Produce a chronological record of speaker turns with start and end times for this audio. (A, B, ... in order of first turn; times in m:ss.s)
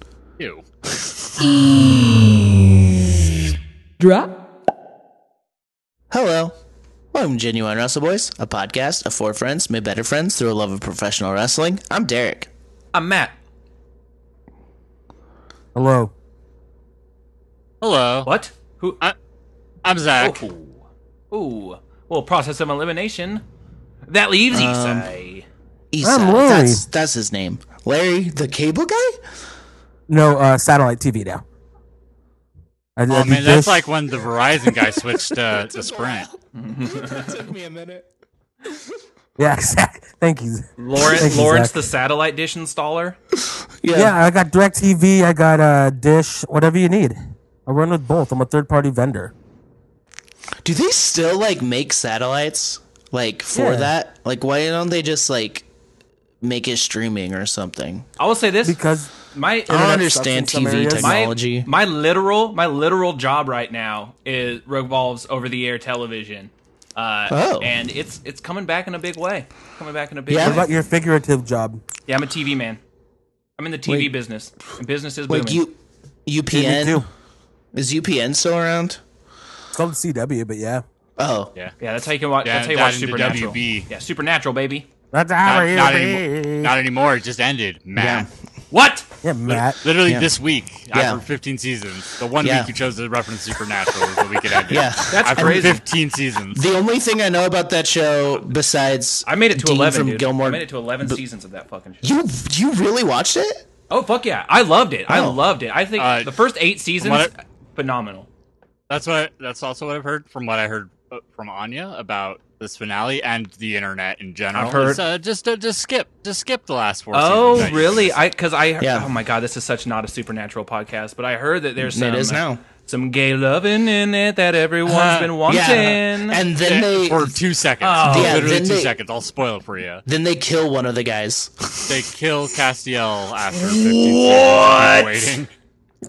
0:01.6-0:02.5 A
0:04.0-0:04.2 A
0:06.1-0:06.6 B
0:07.1-0:12.5 B
0:12.9-0:13.4 A
0:15.7-0:16.1 C
0:17.8-0:18.3 D
0:18.2-0:19.0 A
0:19.8-0:20.4 D
0:20.2-0:23.4 A
0:24.1-0:25.5 A
0:24.5-0:25.1 B
0:25.9-0:29.2 B
0:26.0-0:26.8 C
0:30.1-0:31.4 C
0:33.0-0:33.8 C
0:33.1-0:36.3 D
0:35.5-0:38.1 B
0:36.5-0:37.3 A
0:39.4-0:41.8 C
0:40.8-0:43.2 A
0:43.8-0:44.1 B
0:43.9-0:49.3 C
0:50.6-0:55.6 B
0:53.5-0:53.9 C
0:56.4-0:58.1 B
0:58.2-0:58.8 A
0:58.6-0:59.1 C
0:59.3-1:00.1 A
0:59.7-1:01.7 B
0:59.9-1:01.2 C
1:01.0-1:10.7 A
1:07.3-1:07.7 B
1:10.3-1:10.6 B
1:10.4-1:11.8 C
1:12.1-1:12.8 A
1:13.6-1:15.6 A
1:13.8-1:14.1 B
1:15.3-1:17.0 B
1:16.5-1:17.1 C
1:17.7-1:19.0 B
1:19.7-1:20.8 C
1:21.2-1:21.5 B
1:21.8-1:24.9 A
1:22.4-1:23.9 D
1:25.1-1:26.7 C
1:25.4-1:28.3 D
1:28.0-1:28.3 B
1:28.7-1:29.1 A
1:29.2-1:29.8 C
1:29.5-1:36.6 D
1:30.9-1:31.2 B
1:32.4-1:32.7 B
1:34.6-1:35.8 B
1:35.1-1:35.8 A
1:36.5-1:41.2 B
1:39.2-1:42.1 A
1:42.0-1:43.6 B
1:43.9-1:48.3 A
1:45.1-1:45.4 B
1:46.0-1:46.3 D
1:47.0-1:47.3 D
1:48.9-1:58.2 D
1:54.5-1:55.0 A
1:57.1-2:06.4 A
1:58.8-1:59.1 B
2:01.8-2:02.6 B
2:04.8-2:05.4 D
2:05.4-2:07.4 B
2:06.6-2:10.0 D
2:07.8-2:08.6 A
2:08.0-2:08.9 B
2:10.0-2:12.0 B
2:11.8-2:15.5 D
2:13.5-2:15.2 A